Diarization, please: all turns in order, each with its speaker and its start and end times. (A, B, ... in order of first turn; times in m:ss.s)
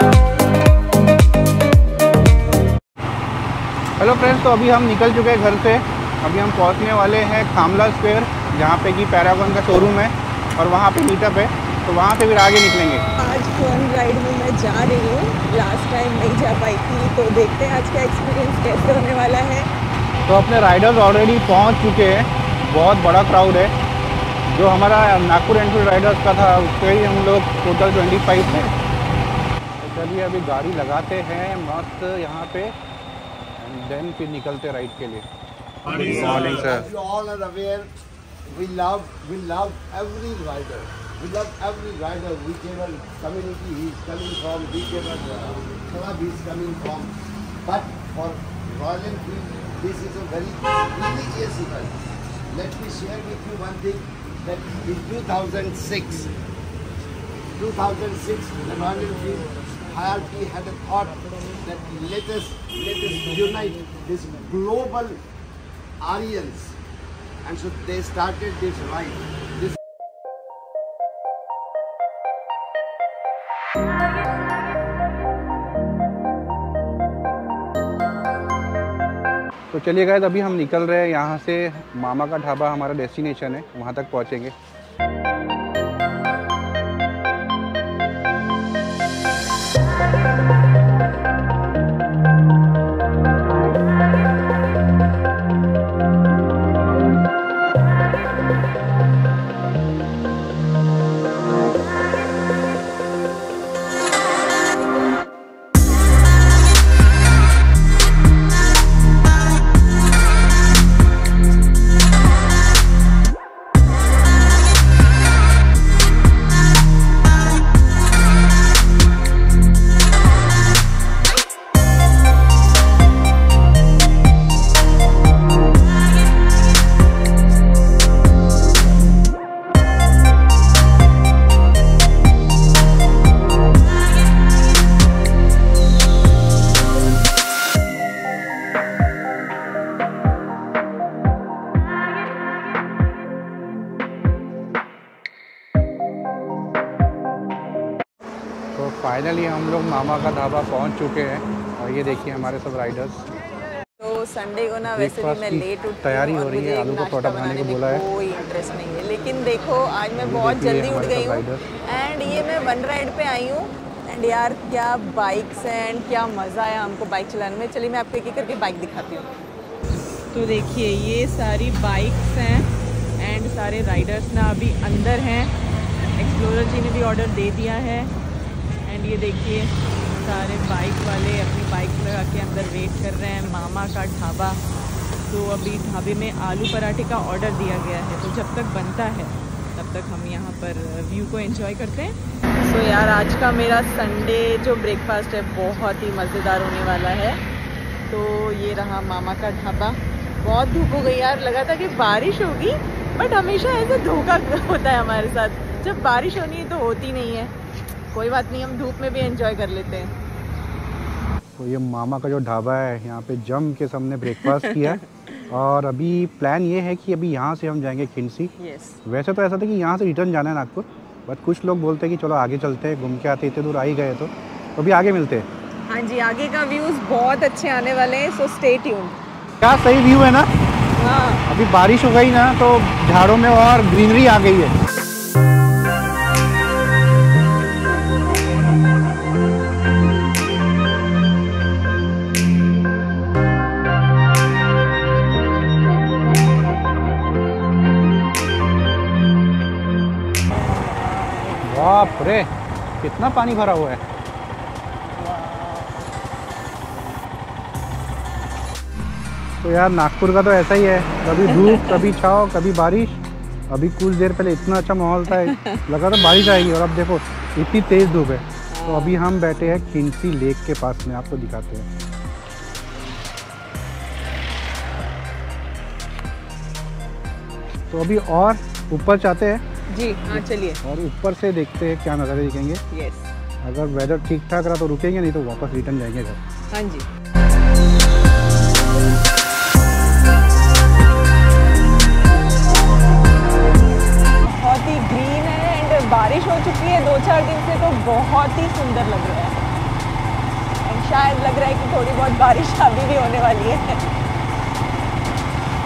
0:04.0-0:13.0 A
0:13.2-0:19.7 B
0:20.3-0:23.7 A
0:24.5-0:28.7 A
0:29.8-0:32.8 A
0:33.6-0:35.2 A
0:35.9-0:36.9 A
0:36.0-0:37.9 C
0:38.5-0:52.0 C
0:52.5-0:56.3 C
0:57.6-1:05.2 C
1:06.0-1:06.8 C
1:07.4-1:09.8 C
1:19.7-1:24.5 A
2:28.7-2:33.2 A
2:34.0-2:49.2 B
2:34.9-2:38.0 A
2:40.2-2:41.6 A
2:50.3-2:52.7 B
2:53.2-2:55.5 B
2:56.2-2:58.1 B
2:58.9-3:04.6 B
3:05.3-3:17.4 B
3:18.1-3:27.5 B
3:28.1-3:30.1 B
3:31.6-3:38.5 A
3:34.4-3:35.1 B
3:38.6-3:39.0 B
3:39.0-3:45.4 A
3:45.9-3:49.2 B
3:49.6-3:50.5 A
3:51.0-3:51.4 B
3:51.5-3:54.7 A
4:10.5-4:12.3 B
4:11.6-4:12.5 A
4:13.0-4:14.0 A
4:15.2-4:16.0 B
4:19.6-4:31.9 A
4:21.4-4:22.1 B
4:25.3-4:25.8 B
4:28.7-4:29.2 B
4:37.9-4:39.6 A
4:39.9-4:40.8 B
4:40.3-4:42.8 A
4:42.9-4:43.3 B
4:43.6-4:46.4 A
4:46.7-4:47.1 B
4:54.4-4:59.6 B
5:00.8-5:04.0 B